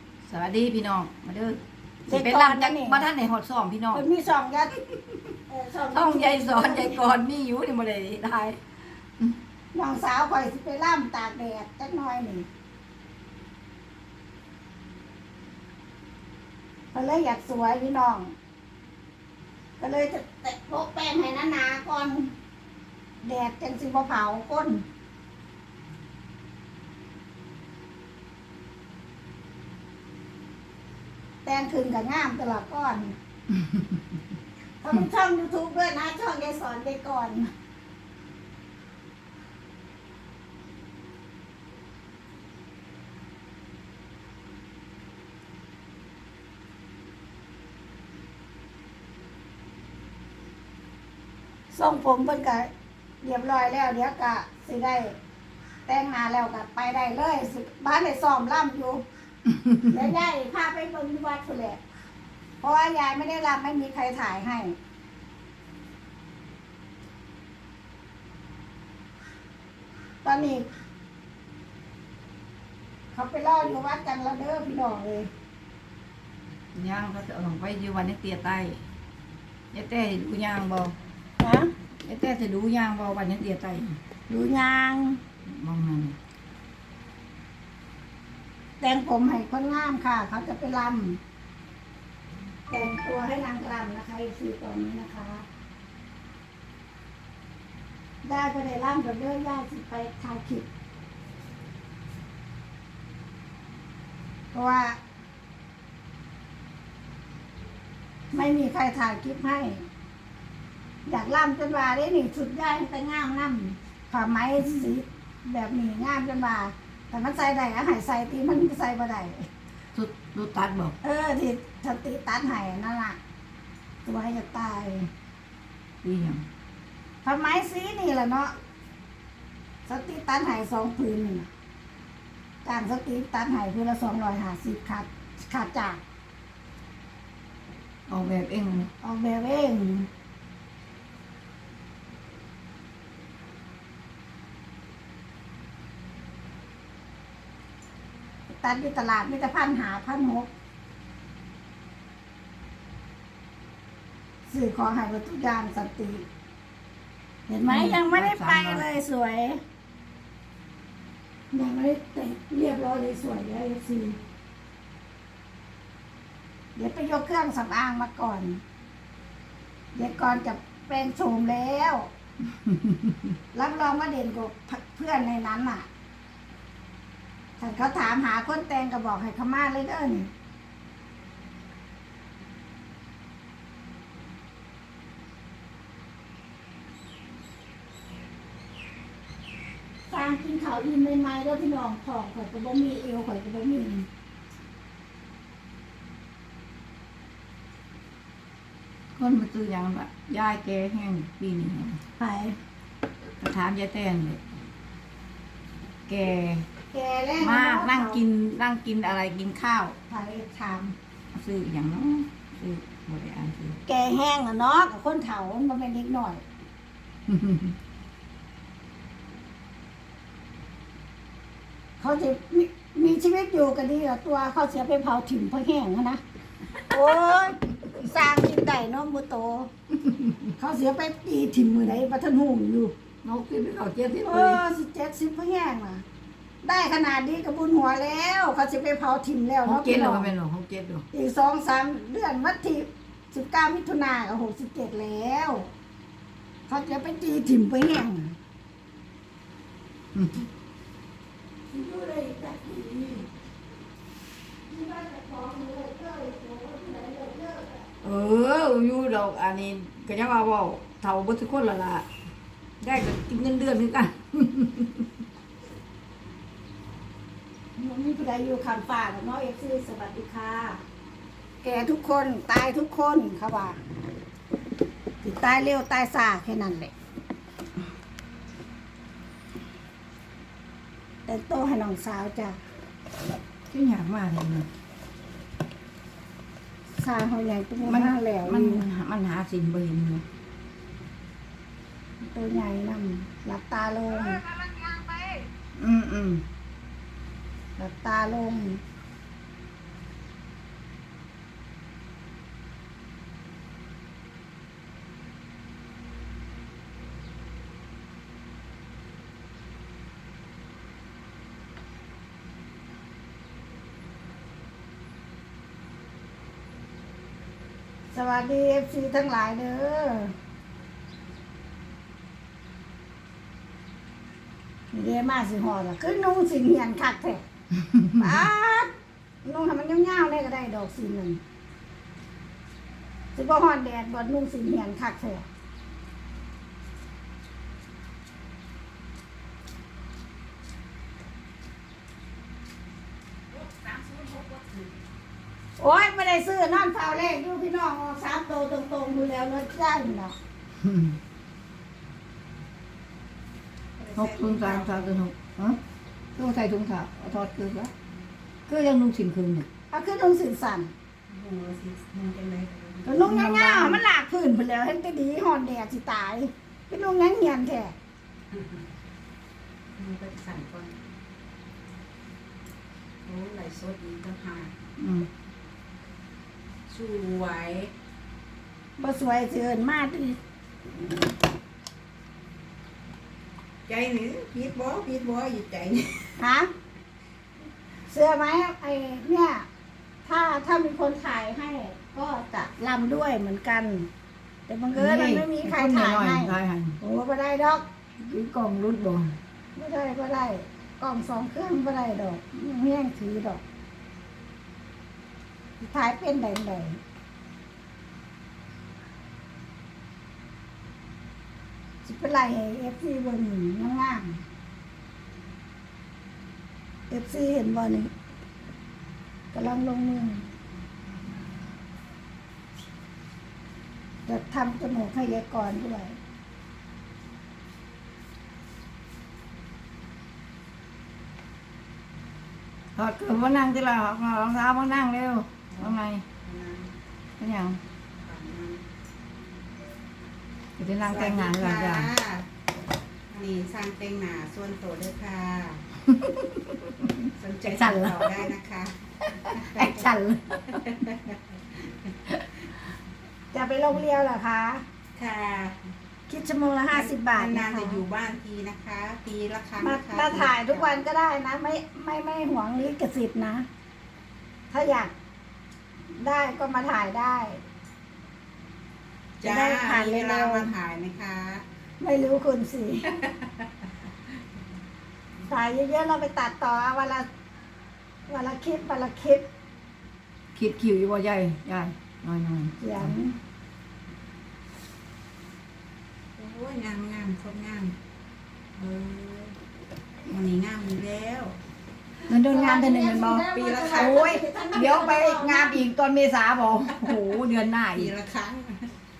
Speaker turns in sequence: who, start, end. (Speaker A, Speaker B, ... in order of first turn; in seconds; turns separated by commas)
Speaker A: 0.3-4.0, Speaker B: 2.1-3.0, Speaker B: 3.9-4.7, Speaker B: 5.5-7.0, Speaker A: 5.9-8.6, Speaker B: 9.7-12.5, Speaker B: 16.9-18.3, Speaker B: 19.8-22.3, Speaker B: 23.2-24.8, Speaker B: 31.4-33.2, Speaker B: 34.8-37.5, Speaker B: 51.7-52.7, Speaker B: 53.2-55.1, Speaker B: 55.9-59.0, Speaker A: 59.6-60.0, Speaker B: 59.9-61.8, Speaker B: 62.6-64.8, Speaker B: 70.2-70.7, Speaker B: 73.1-75.3, Speaker A: 76.7-78.8, Speaker A: 79.7-80.9, Speaker B: 81.4-81.7, Speaker A: 82.0-83.9, Speaker B: 84.3-85.2, Speaker A: 85.5-86.2, Speaker B: 88.8-91.2, Speaker B: 92.7-95.4, Speaker B: 98.2-100.7, Speaker B: 104.5-105.0, Speaker B: 108.3-109.8, Speaker B: 111.0-119.5, Speaker A: 119.9-121.0, Speaker B: 121.0-123.2, Speaker B: 124.0-125.1, Speaker A: 126.0-126.4, Speaker B: 127.2-128.5, Speaker B: 129.8-131.5, Speaker B: 132.6-136.0, Speaker A: 138.1-138.9, Speaker B: 139.0-140.1, Speaker B: 148.5-150.5, Speaker B: 154.5-156.2, Speaker B: 157.5-159.6, Speaker A: 157.7-158.9, Speaker B: 161.5-164.2, Speaker B: 166.7-168.6, Speaker B: 169.9-172.1, Speaker A: 172.7-172.9, Speaker B: 173.5-175.9, Speaker B: 177.6-180.3, Speaker B: 190.1-194.1, Speaker A: 199.1-202.0, Speaker B: 202.2-202.6, Speaker A: 203.4-204.4, Speaker A: 206.1-206.7, Speaker B: 206.9-208.2, Speaker A: 207.4-209.9, Speaker B: 210.1-210.9, Speaker A: 211.3-213.8, Speaker B: 213.8-216.4, Speaker A: 217.3-217.7, Speaker B: 222.0-226.2, Speaker B: 226.8-229.7, Speaker A: 227.1-227.4, Speaker A: 230.0-230.5, Speaker B: 230.6-232.9, Speaker A: 233.2-234.6, Speaker B: 234.2-236.0, Speaker B: 236.6-240.3, Speaker A: 239.7-241.1, Speaker B: 241.1-245.7, Speaker B: 246.7-248.3, Speaker A: 250.1-250.4, Speaker B: 251.7-253.3, Speaker B: 254.7-257.9, Speaker A: 258.0-262.1, Speaker A: 262.8-265.1, Speaker B: 267.8-270.8, Speaker B: 271.6-273.8, Speaker B: 275.2-276.9, Speaker B: 281.2-282.6, Speaker A: 283.7-284.7, Speaker B: 286.9-288.9, Speaker A: 287.8-290.2, Speaker B: 292.2-294.4, Speaker A: 294.4-296.4, Speaker B: 297.8-298.8, Speaker B: 318.1-320.3, Speaker B: 324.9-327.4, Speaker B: 328.1-328.9, Speaker B: 329.4-331.4, Speaker B: 333.3-335.5, Speaker C: 343.5-345.0, Speaker B: 345.8-350.3, Speaker A: 350.8-351.1, Speaker C: 354.0-355.1, Speaker A: 354.1-355.8, Speaker A: 356.4-357.9, Speaker A: 358.7-359.7, Speaker B: 359.9-360.9, Speaker C: 361.3-363.2, Speaker B: 363.1-367.9, Speaker A: 363.2-364.0, Speaker C: 368.5-368.8, Speaker C: 370.0-370.9, Speaker C: 373.2-374.7, Speaker A: 375.0-375.3, Speaker C: 376.9-377.9, Speaker B: 379.0-380.4, Speaker C: 383.9-386.3, Speaker B: 386.4-386.7, Speaker B: 388.1-389.6, Speaker B: 390.2-394.1, Speaker B: 394.7-397.8, Speaker A: 394.9-396.9, Speaker A: 398.2-399.3, Speaker B: 399.8-403.6, Speaker B: 405.8-407.0, Speaker B: 412.0-414.4, Speaker B: 417.1-418.1, Speaker B: 419.5-420.5, Speaker B: 424.2-426.2, Speaker A: 432.9-436.2, Speaker C: 435.7-436.9, Speaker A: 437.4-437.8, Speaker C: 438.2-438.8, Speaker A: 440.8-442.1, Speaker C: 441.0-442.4, Speaker C: 443.3-445.8, Speaker A: 446.1-447.1, Speaker C: 447.4-450.0, Speaker A: 447.7-448.4, Speaker A: 449.4-450.8, Speaker C: 450.8-451.4, Speaker B: 453.5-454.8, Speaker C: 455.1-455.8, Speaker B: 456.3-458.0, Speaker C: 456.9-461.0, Speaker B: 459.8-463.7, Speaker B: 464.7-465.1, Speaker B: 466.2-467.6, Speaker C: 469.4-471.6, Speaker B: 469.4-470.7, Speaker B: 472.0-473.1, Speaker C: 473.1-473.5, Speaker B: 475.5-477.3, Speaker B: 478.3-479.4, Speaker A: 480.5-483.1, Speaker B: 482.8-483.4, Speaker C: 486.4-487.9, Speaker C: 488.8-489.6, Speaker C: 490.3-491.5, Speaker A: 492.3-498.1, Speaker B: 492.4-495.8, Speaker C: 493.5-494.3, Speaker C: 496.9-497.2, Speaker C: 497.9-498.9